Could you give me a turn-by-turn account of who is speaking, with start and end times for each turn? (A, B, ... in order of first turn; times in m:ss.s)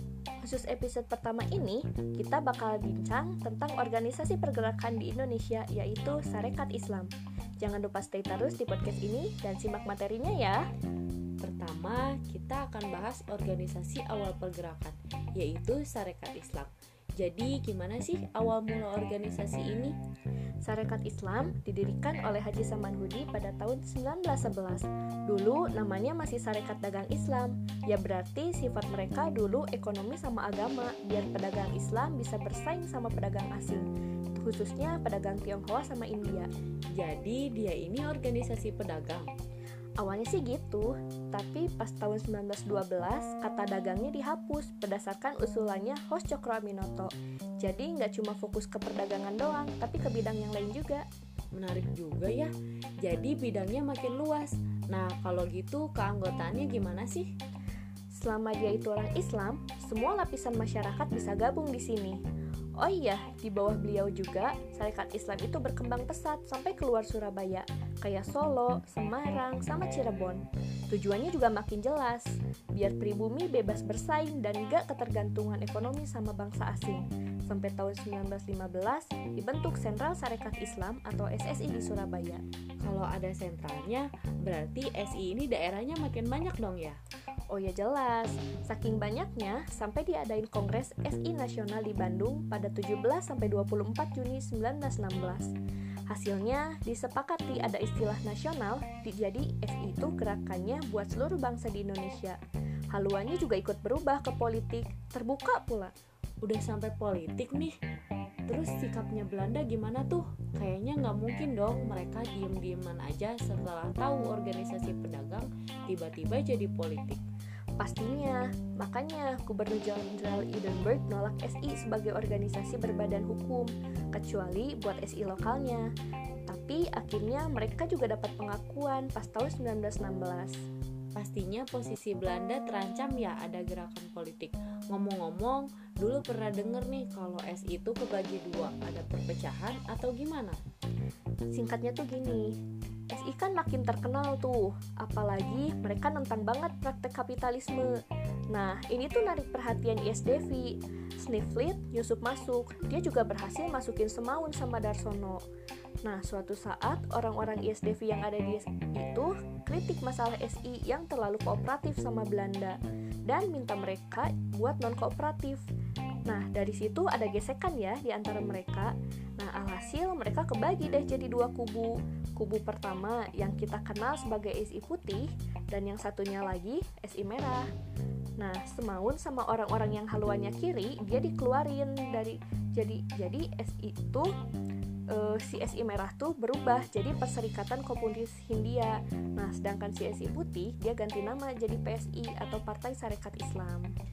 0:00.4-0:10.6 A
0:11.4-0:20.0 B
0:20.6-0:36.5 A
0:36.9-0:39.3 B
0:40.0-0:51.0 A
0:51.5-0:57.3 B
0:58.1-1:02.2 A
1:02.8-1:22.4 A
1:22.8-1:27.0 B
1:27.5-1:35.5 A
1:36.1-1:42.4 A
1:42.9-1:45.9 A
1:46.4-1:47.8 B
1:48.5-1:57.2 B
1:57.8-2:05.9 A
2:06.5-2:10.6 A
2:11.1-2:20.6 B
2:21.5-2:22.6 A
2:23.1-2:27.9 A
2:28.5-2:35.4 A
2:36.0-2:45.6 A
2:46.2-2:57.7 A
2:58.4-3:04.3 A
3:05.1-3:13.9 A